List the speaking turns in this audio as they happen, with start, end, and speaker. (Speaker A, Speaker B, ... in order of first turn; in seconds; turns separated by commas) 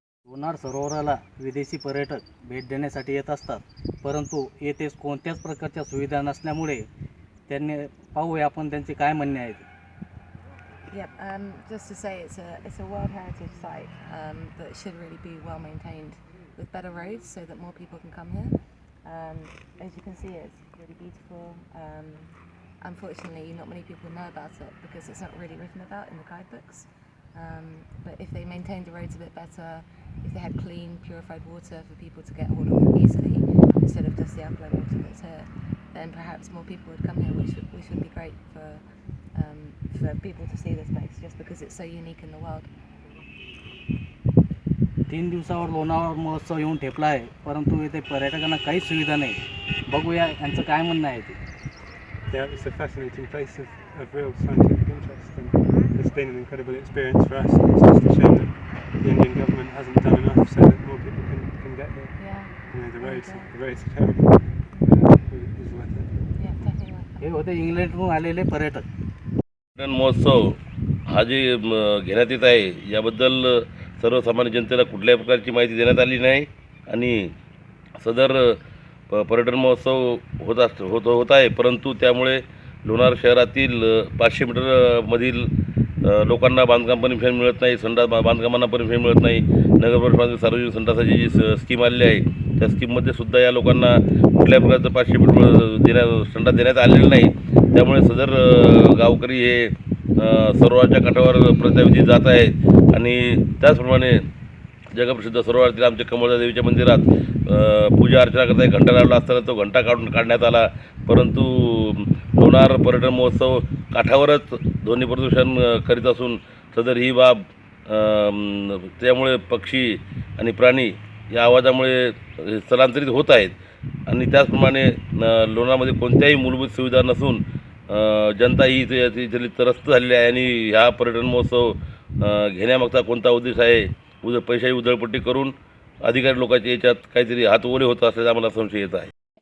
Speaker A: 0.3-6.9, Speaker A: 7.5-9.7, Speaker B: 10.9-42.7, Speaker A: 45.1-51.4, Speaker C: 52.3-62.2, Speaker B: 62.2-63.5, Speaker C: 62.7-66.1, Speaker B: 64.7-65.2, Speaker B: 66.4-67.3, Speaker A: 67.2-68.9, Speaker D: 69.8-77.3, Speaker D: 78.0-78.6, Speaker D: 79.1-85.5, Speaker D: 86.0-104.2, Speaker D: 104.9-123.6, Speaker D: 124.1-139.1